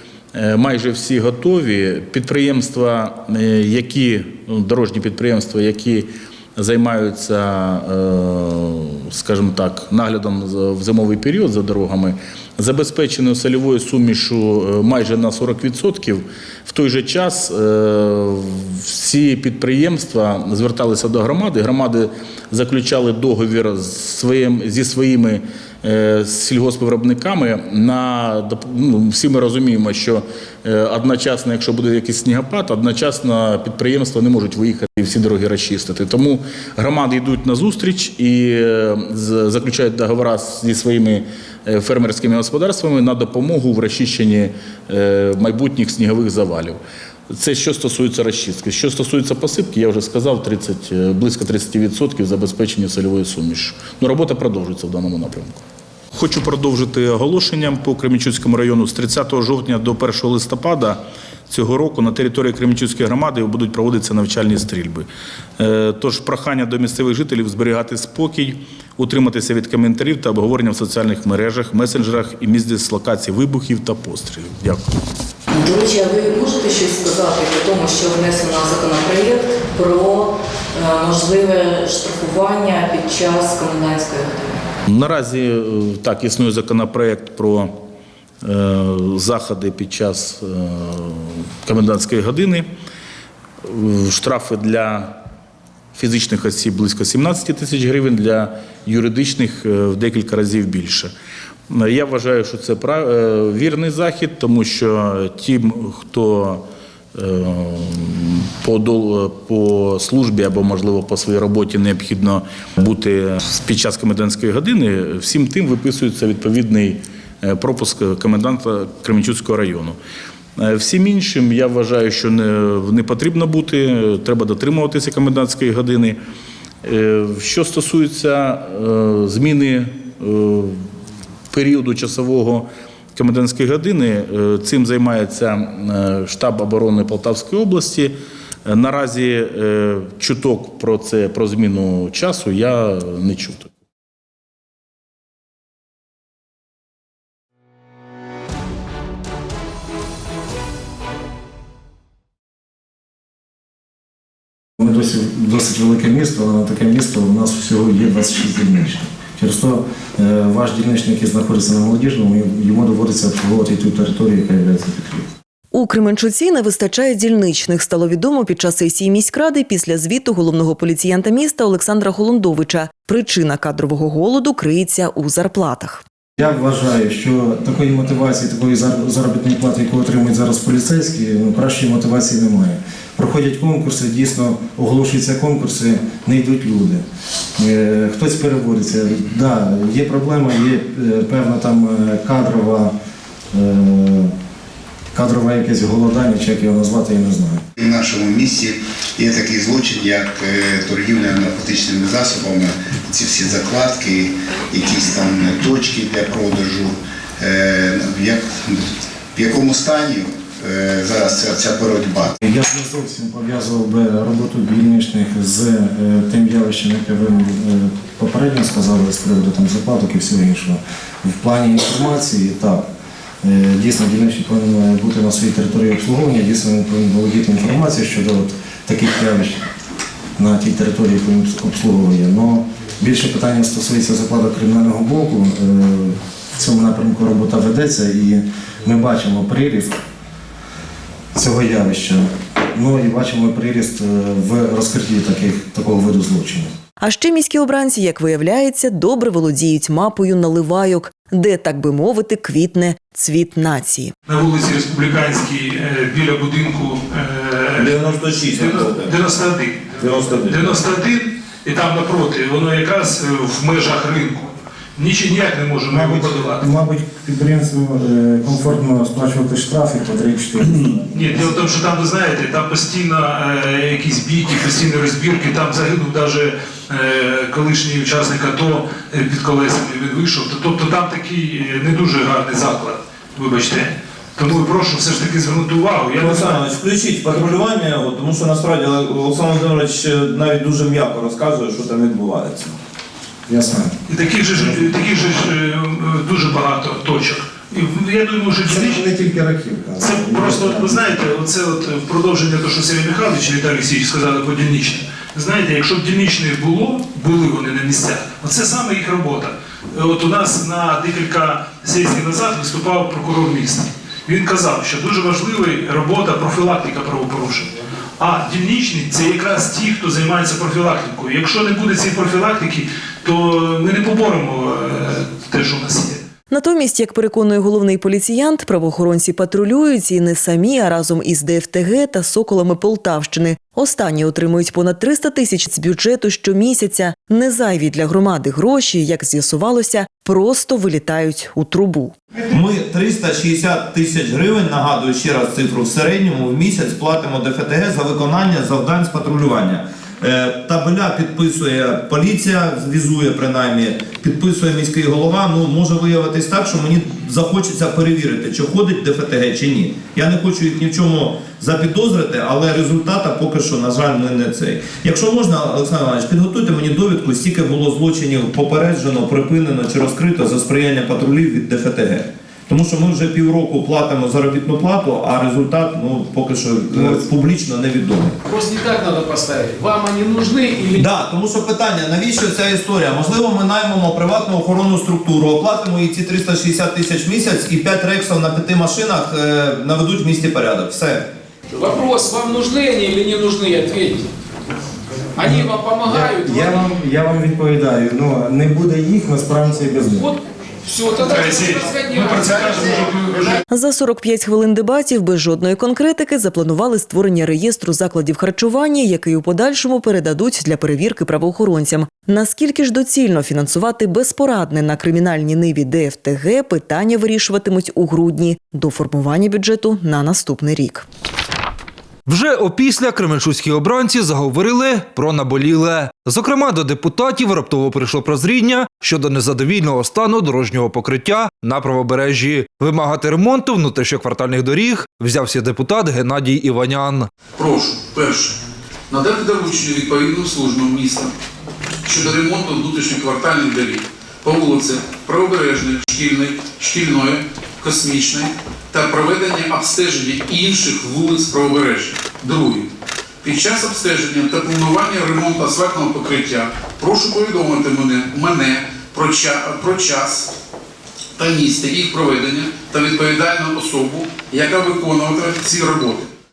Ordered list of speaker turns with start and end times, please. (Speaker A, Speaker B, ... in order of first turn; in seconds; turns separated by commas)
Speaker A: 0.3-55.6, Speaker A: 56.1-65.1, Speaker A: 65.6-74.8, Speaker B: 75.5-84.6, Speaker A: 84.9-87.8, Speaker A: 88.4-92.7, Speaker A: 93.6-95.2, Speaker A: 95.9-101.1, Speaker A: 101.7-120.0, Speaker A: 120.6-126.2, Speaker A: 126.8-130.9, Speaker A: 131.5-143.7, Speaker C: 154.8-165.3, Speaker D: 165.7-176.0, Speaker C: 176.4-187.0, Speaker C: 187.6-192.9, Speaker C: 193.5-194.3, Speaker C: 195.1-197.6, Speaker E: 197.8-212.3, Speaker C: 212.4-222.8, Speaker C: 223.4-229.6, Speaker C: 230.4-240.0, Speaker C: 241.3-246.7, Speaker D: 247.0-254.1, Speaker F: 254.3-266.6, Speaker G: 257.8-259.2, Speaker G: 260.0-260.8, Speaker C: 265.9-271.7, Speaker F: 271.1-286.6, Speaker G: 286.2-292.8, Speaker C: 293.5-294.0, Speaker F: 294.1-299.1, Speaker C: 294.6-295.0, Speaker C: 298.6-301.2, Speaker F: 300.0-326.2, Speaker D: 326.5-342.2, Speaker G: 342.5-378.4, Speaker C: 376.9-377.2, Speaker H: 378.4-381.1, Speaker G: 380.9-391.3, Speaker H: 391.7-394.3, Speaker H: 395.4-396.9, Speaker C: 395.4-400.3, Speaker H: 400.2-403.6, Speaker F: 401.2-403.6, Speaker D: 403.7-421.1, Speaker I: 422.3-437.3, Speaker J: 437.6-438.6, Speaker J: 439.1-441.3, Speaker J: 442.0-452.9, Speaker J: 453.4-460.5, Speaker J: 461.4-466.3